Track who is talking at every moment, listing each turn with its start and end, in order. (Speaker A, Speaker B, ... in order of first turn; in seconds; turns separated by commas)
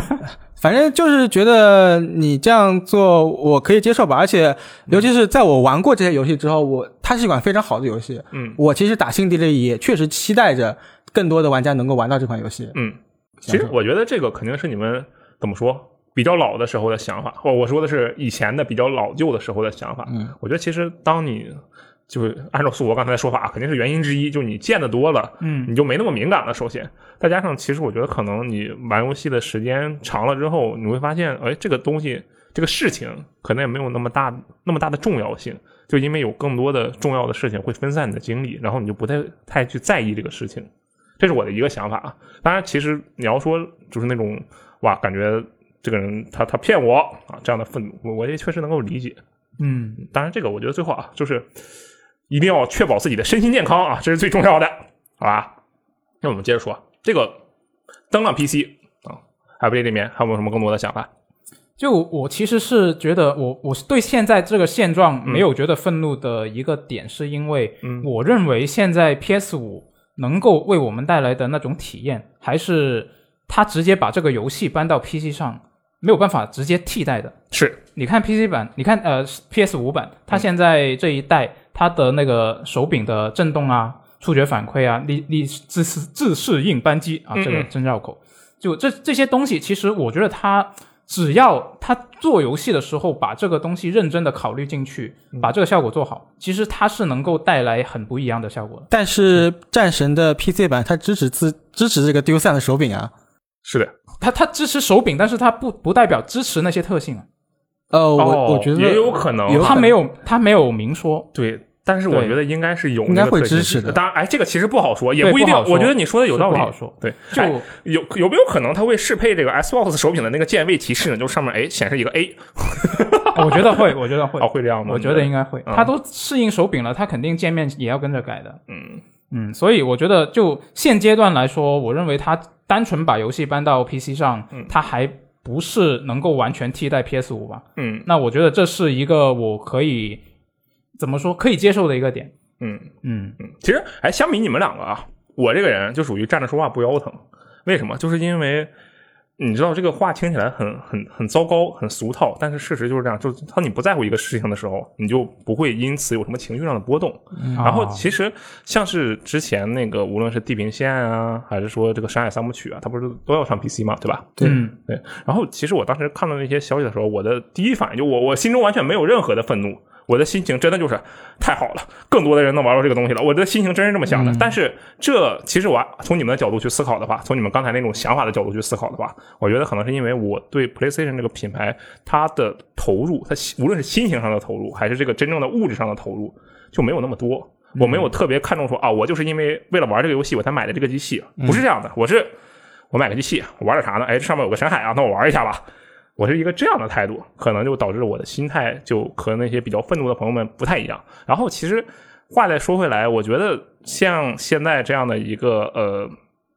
Speaker A: 0.6-12.7, Speaker B: 8.3-8.6, Speaker B: 12.7-49.2, Speaker A: 13.4-13.7, Speaker C: 25.4-25.7, Speaker C: 49.6-50.0, Speaker B: 50.0-51.5, Speaker B: 52.3-55.5, Speaker B: 56.2-57.4, Speaker B: 58.1-61.1, Speaker C: 61.8-77.3, Speaker B: 77.5-77.8, Speaker C: 78.0-98.9, Speaker B: 87.3-87.7, Speaker A: 98.9-103.1, Speaker B: 103.6-103.9, Speaker C: 104.2-107.2, Speaker A: 107.9-109.9, Speaker B: 108.2-109.8, Speaker C: 109.5-111.3, Speaker B: 111.3-125.9, Speaker C: 112.1-112.3, Speaker A: 113.0-114.0, Speaker C: 115.2-117.7, Speaker C: 123.3-128.6, Speaker B: 128.7-129.0, Speaker C: 129.3-140.2, Speaker B: 137.8-138.1, Speaker C: 141.0-142.3, Speaker B: 142.6-148.7, Speaker C: 143.0-143.4, Speaker B: 149.4-192.3, Speaker A: 157.4-157.6, Speaker C: 157.6-158.0, Speaker C: 164.4-164.8, Speaker A: 174.1-174.5, Speaker C: 187.8-188.1, Speaker B: 192.9-195.6, Speaker B: 196.2-206.1